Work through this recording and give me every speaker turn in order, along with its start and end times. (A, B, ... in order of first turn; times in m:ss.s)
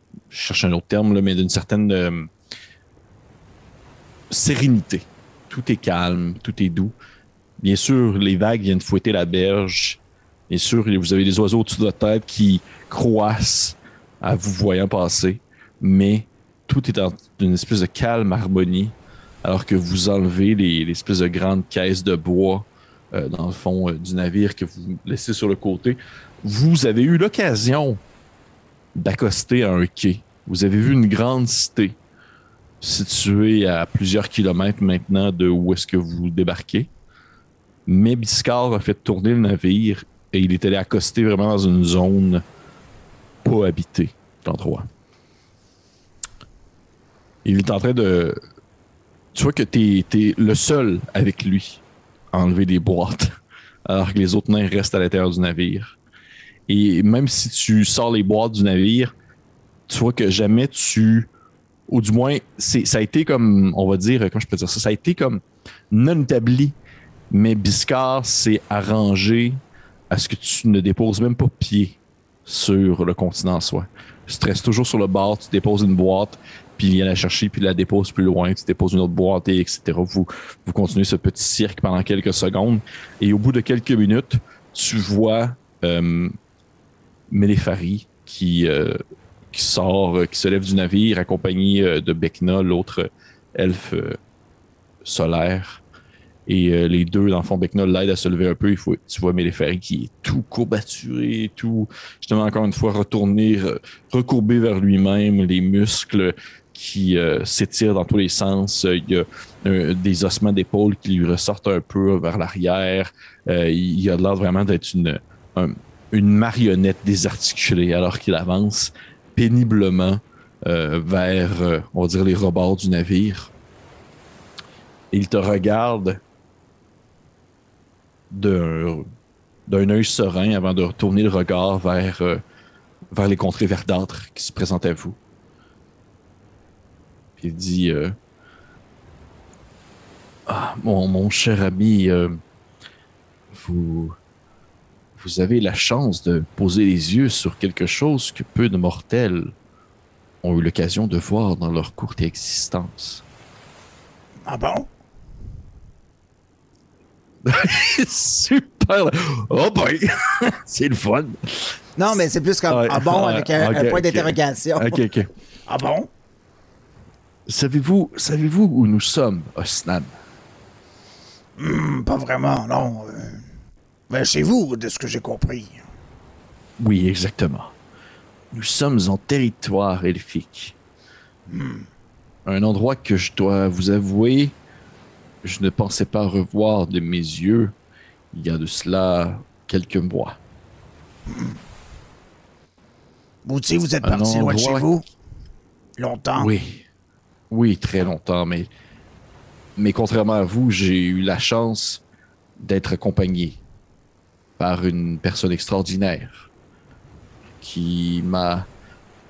0:00.3-0:02.3 A
0:04.3-0:06.9 A
0:07.6-0:28.0 A
0:28.9-0:32.0 A
0:32.8-0:36.9 A
0:37.9-0:42.4 A
0:43.4-0:44.9 A
0:47.4-0:48.4 A
0:49.4-0:51.8 A
0:52.3-0:53.4 A
0:53.9-0:56.0 A
0:56.7-0:59.1 A
0:59.9-1:01.3 A
1:01.9-1:06.8 A
1:07.3-1:26.4 A
1:27.3-1:29.0 A
1:29.5-1:34.2 A
1:35.0-1:35.8 A
1:36.5-2:03.5 A
2:05.1-2:06.2 A
2:08.3-2:09.1 A
2:09.7-2:12.4 A
2:13.1-2:15.2 A
2:17.4-2:18.1 A
2:20.5-2:22.4 A
2:23.5-2:24.2 A
2:25.1-2:29.5 A
2:30.4-2:33.2 A
2:34.4-2:34.9 B
2:37.4-2:41.8 A
2:42.0-2:45.0 B
2:42.7-2:45.3 A
2:45.7-2:46.1 B
2:47.5-2:50.1 A
2:51.6-2:53.5 B
2:54.1-2:55.8 B
2:56.8-2:57.7 A
2:58.5-3:00.8 A
3:01.5-3:01.9 B
3:02.5-3:04.6 A
3:05.4-3:07.7 A
3:08.3-3:10.4 A
3:11.3-3:11.6 B
3:13.4-3:15.0 B
3:14.0-3:14.9 A
3:16.0-3:16.5 B
3:16.4-3:16.8 A
3:17.5-3:18.7 A
3:19.8-3:22.0 A
3:22.6-3:23.6 A
3:24.6-3:26.5 A
3:27.6-3:28.7 A